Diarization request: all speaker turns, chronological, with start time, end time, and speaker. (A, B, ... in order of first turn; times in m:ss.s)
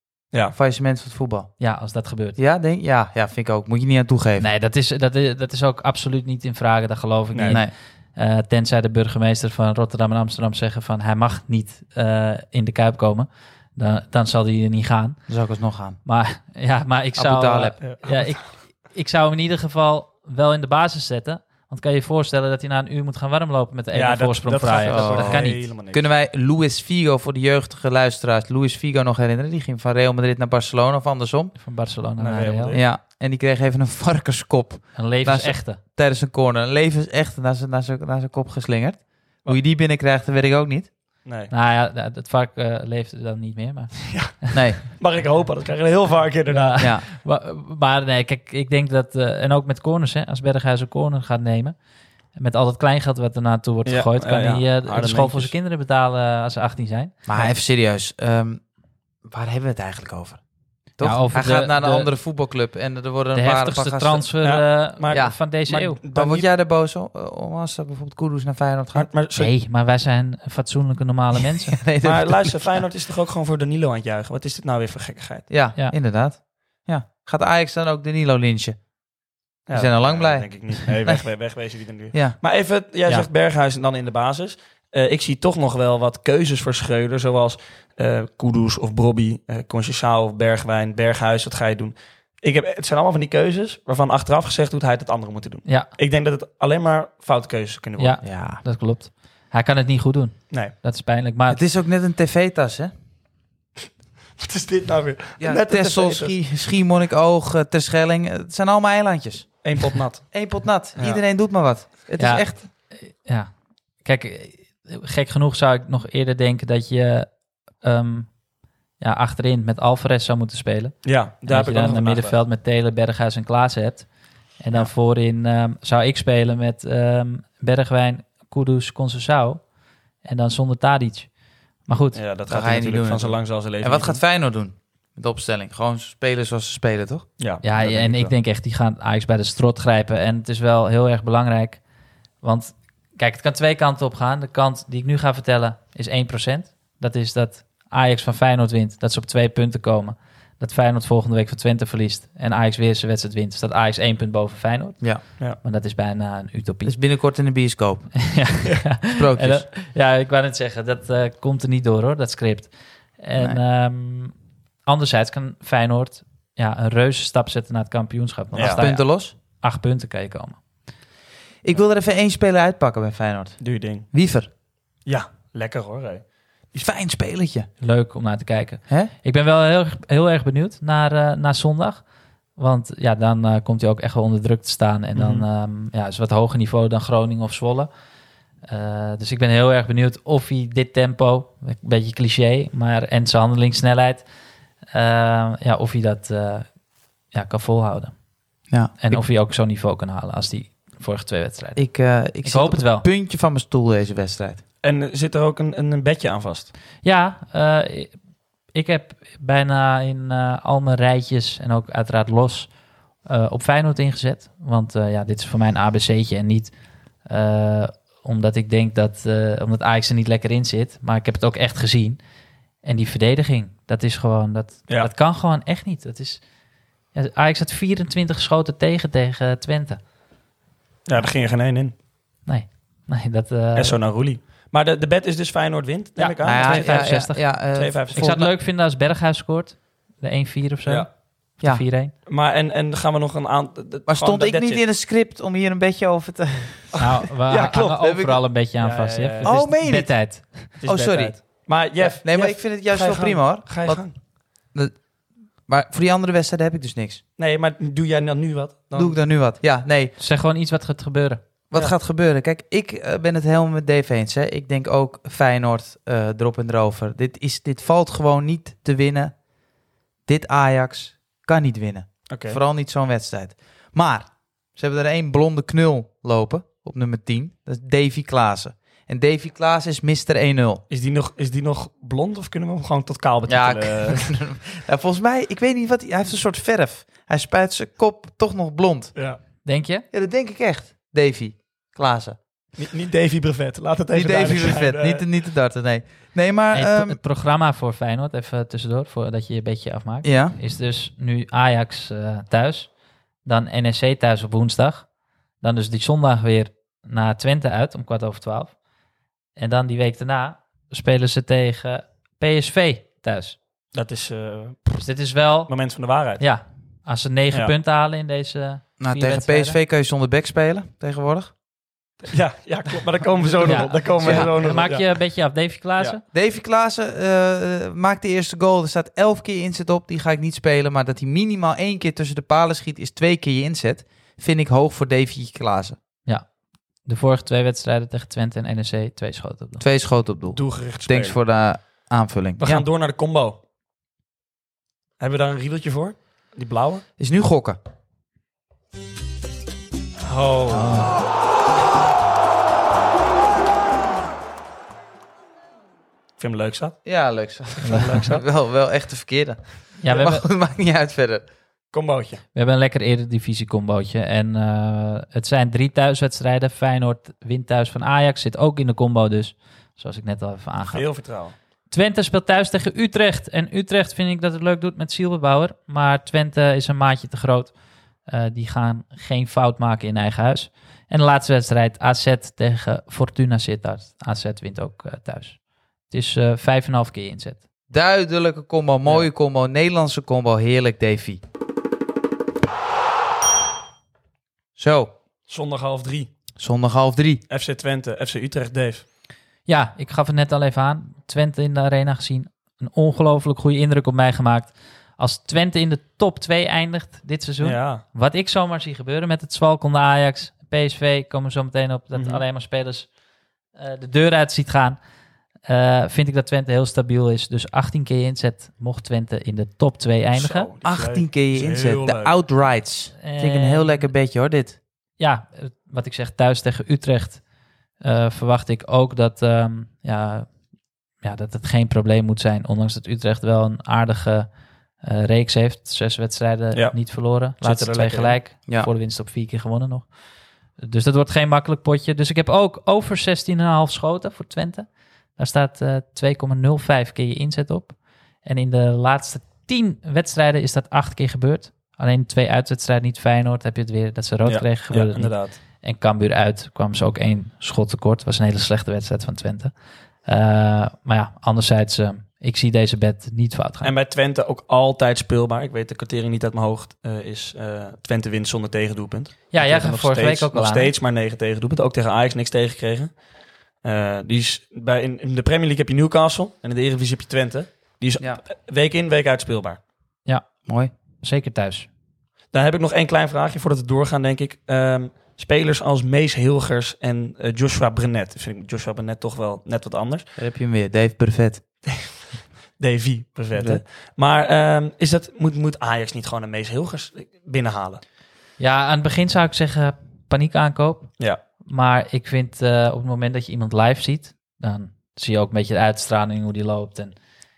0:00.5-0:01.5 A
0:01.6-0:02.4 B
0:02.4-0:04.5 A
0:04.4-0:15.2 B
0:07.3-0:07.6 C
0:15.3-0:16.0 A
0:16.0-0:25.7 B
0:17.2-0:17.8 A
0:17.8-0:18.5 C
0:23.9-0:26.1 C
0:24.9-0:31.6 A
0:31.6-0:32.8 B
0:32.2-0:32.8 C
0:32.7-0:40.9 A
0:35.0-0:35.8 B
0:41.2-0:41.5 C
0:41.5-0:44.5 B
0:44.1-0:46.9 C
0:44.5-0:44.8 A
0:46.5-0:51.8 B
0:46.8-0:47.0 A
0:52.3-0:57.2 B
0:53.9-0:55.5 C
0:57.3-0:58.6 A
0:59.2-1:00.4 A
1:01.0-1:04.3 A
1:01.0-1:02.1 B
1:03.3-1:06.0 B
1:04.4-1:06.5 C
1:05.1-1:05.4 A
1:06.1-1:09.1 A
1:08.9-1:09.5 C
1:09.4-1:11.8 B
1:11.5-1:12.8 A
1:12.0-1:15.5 C
1:15.5-1:18.8 A
1:19.7-1:38.2 C
1:19.7-1:21.2 A
1:22.1-1:22.4 A
1:38.0-1:41.6 B
1:38.2-1:38.6 A
1:41.5-1:42.9 A
1:44.4-1:46.4 C
1:45.4-1:52.6 A
1:49.6-1:50.4 C
1:51.0-1:51.2 C
1:52.2-1:53.5 B
1:54.0-1:58.4 B
1:59.0-2:09.6 B
2:01.0-2:02.4 C
2:10.2-2:11.3 B
2:11.8-2:12.2 B
2:12.1-2:14.2 C
2:12.5-2:18.2 A
2:17.4-2:18.3 C
2:17.6-2:21.8 B
2:22.4-2:37.0 B
2:36.9-2:38.3 A
2:38.2-2:50.6 B
2:39.1-2:39.7 A
2:48.6-2:48.8 C
2:48.6-2:49.3 A
2:51.6-2:54.5 A
2:53.6-2:54.1 C
2:55.1-2:56.8 C
2:56.8-2:57.7 A
2:57.8-3:02.0 B
3:02.6-3:07.9 B
3:05.2-3:05.4 C
3:08.7-3:14.2 B
3:14.9-3:16.7 B
3:17.3-3:18.2 B
3:18.7-3:19.2 A
3:18.9-3:21.9 B
3:21.8-3:24.6 A
3:22.4-3:23.1 B
3:24.8-3:26.7 C
3:27.0-3:28.2 B
3:28.7-3:32.7 B
3:33.2-3:36.7 B
3:37.2-3:42.2 B
3:42.8-3:46.4 B
3:47.1-3:50.0 B
3:51.1-3:51.9 C
3:52.4-3:54.0 B
3:53.8-3:58.4 C
3:56.2-3:57.5 B
3:56.4-3:58.5 A
3:58.1-4:02.1 B
4:01.6-4:01.8 A
4:02.3-4:04.8 C
4:04.1-4:07.0 A
4:06.9-4:08.2 C
4:07.0-4:10.7 B
4:08.0-4:08.4 A
4:08.8-4:09.6 C
4:09.4-4:14.1 A
4:10.8-4:14.2 C
4:14.7-4:15.0 A
4:15.7-4:17.2 A
4:17.4-4:19.2 C
4:18.9-4:20.1 A
4:20.2-4:21.4 B
4:21.7-4:29.3 A
4:30.3-4:40.8 A
4:32.3-4:32.6 C
4:40.9-4:44.3 C
4:43.5-4:49.2 A
4:49.6-4:50.0 B
4:50.1-4:52.4 A
4:52.8-4:55.2 C
4:54.1-4:57.2 A
4:56.7-5:02.9 B
5:00.2-5:00.6 A
5:03.4-5:05.1 B
5:05.6-5:08.8 B
5:09.6-5:13.6 B
5:13.9-5:15.1 C
5:15.0-5:15.7 B
5:15.7-5:16.4 C
5:16.4-5:19.8 B
5:19.0-5:21.5 A
5:22.2-5:25.2 C
5:23.5-5:24.5 A
5:23.6-5:26.2 B
5:26.3-5:36.0 A
5:37.0-5:39.8 B
5:39.8-5:42.8 A
5:40.5-5:41.4 C
5:42.6-5:43.6 C
5:45.2-5:47.0 C
5:47.2-5:47.8 A
5:50.3-5:51.0 C
5:50.7-5:51.2 B
5:56.4-5:57.0 C
5:57.0-6:01.4 A
5:57.8-5:58.2 B
5:57.8-5:58.4 C
6:00.0-6:00.4 B
6:01.9-6:02.4 C
6:02.5-6:11.1 B
6:10.9-6:11.6 C
6:11.9-6:17.7 B
6:18.3-6:27.6 B
6:27.9-6:31.4 A
6:34.8-6:35.1 A
6:35.5-6:36.3 C
6:36.6-6:37.4 A
6:37.5-6:39.0 C
6:39.7-6:53.1 B
6:47.6-6:48.0 C
6:52.1-6:52.4 C
6:53.8-6:55.0 B
6:55.7-7:00.7 B
7:00.4-7:02.3 C
7:00.8-7:04.8 A
7:03.2-7:04.1 B
7:05.2-7:07.4 B
7:08.0-7:10.5 B
7:11.2-7:14.5 B
7:15.0-7:20.1 B
7:16.7-7:18.4 C
7:20.8-7:39.7 B
7:34.5-7:35.6 C
7:40.2-7:43.9 B
7:43.8-7:53.2 C
7:49.5-7:50.9 B
7:53.8-7:59.8 C
8:00.3-8:00.6 B
8:00.7-8:00.9 A
8:01.2-8:01.9 B
8:02.5-8:10.3 C
8:10.4-8:11.6 A
8:12.8-8:18.0 C
8:13.6-8:13.8 A
8:18.6-8:27.2 B